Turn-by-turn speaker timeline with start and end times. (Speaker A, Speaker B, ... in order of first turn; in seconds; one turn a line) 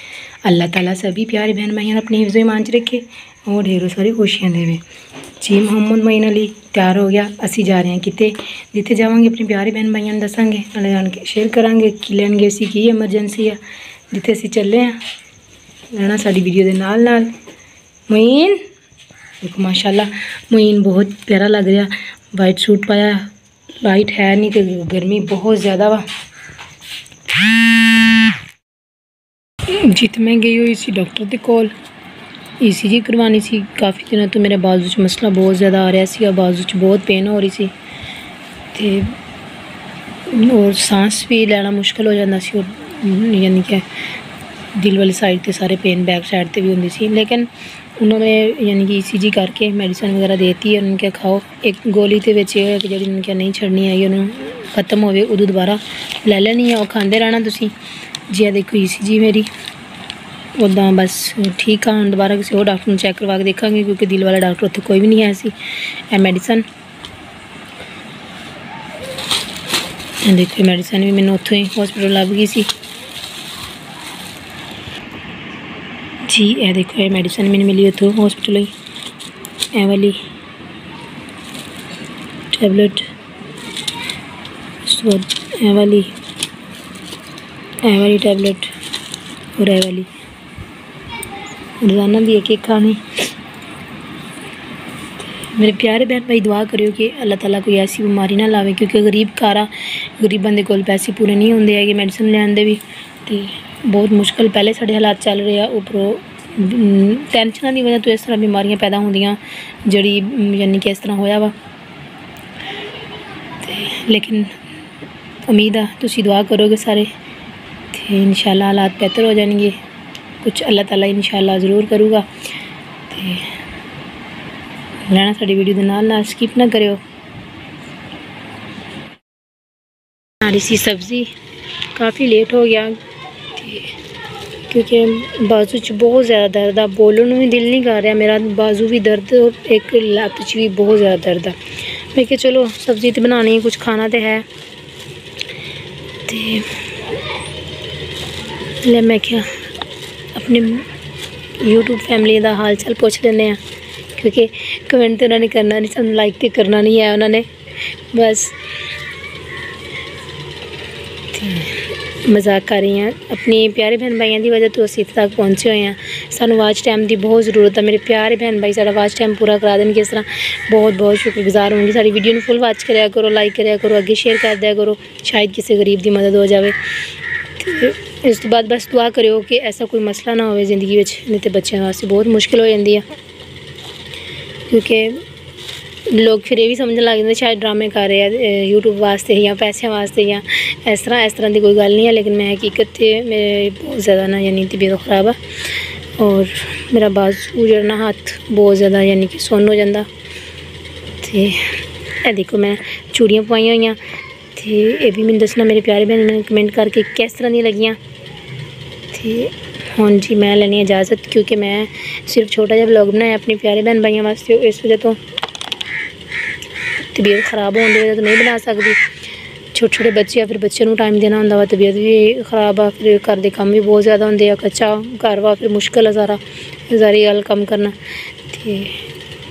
Speaker A: 0.4-4.8
Speaker A: 5.4-13.6
Speaker A: 14.1-15.0
Speaker A: 15.9-17.3
Speaker A: 18.1-18.6
Speaker A: 19.4-26.1
Speaker A: 29.7-31.7
Speaker A: 32.6-37.7
Speaker A: 38.7-39.1
Speaker A: 40.2-43.9
Speaker A: 44.7-57.7
Speaker A: 58.3-59.5
Speaker A: 60.5-65.6
Speaker A: 66.1-66.7
Speaker A: 70.2-72.7
Speaker A: 76.2-78.7
Speaker A: 79.7-80.2
Speaker A: 82.5-83.1
Speaker A: 84.8-86.1
Speaker A: 87.8-88.7
Speaker A: 89.5-90.1
Speaker A: 91.8-93.0
Speaker A: 95.2-111.5
Speaker A: 113.6-114.5
Speaker A: 115.5-117.1
Speaker A: 117.9-119.8
Speaker A: 120.4-122.3
Speaker A: 123.1-123.5
Speaker A: 125.0-127.0
Speaker A: 130.4-131.3
Speaker A: 131.9-133.0
Speaker A: 133.5-134.0
Speaker A: 134.7-141.6
Speaker A: 142.1-144.5
Speaker A: 146.3-146.8
Speaker A: 148.8-149.6
Speaker A: 150.3-150.9
Speaker A: 151.6-153.6
Speaker A: 154.2-158.6
Speaker A: 161.3-176.8
Speaker A: 177.6-183.1
Speaker A: 184.7-185.2
Speaker A: 186.1-200.1
Speaker A: 201.2-204.0
Speaker A: 204.6-208.0
Speaker A: 209.1-215.2
Speaker A: 217.0-219.0
Speaker A: 219.7-228.0
Speaker A: 228.5-229.0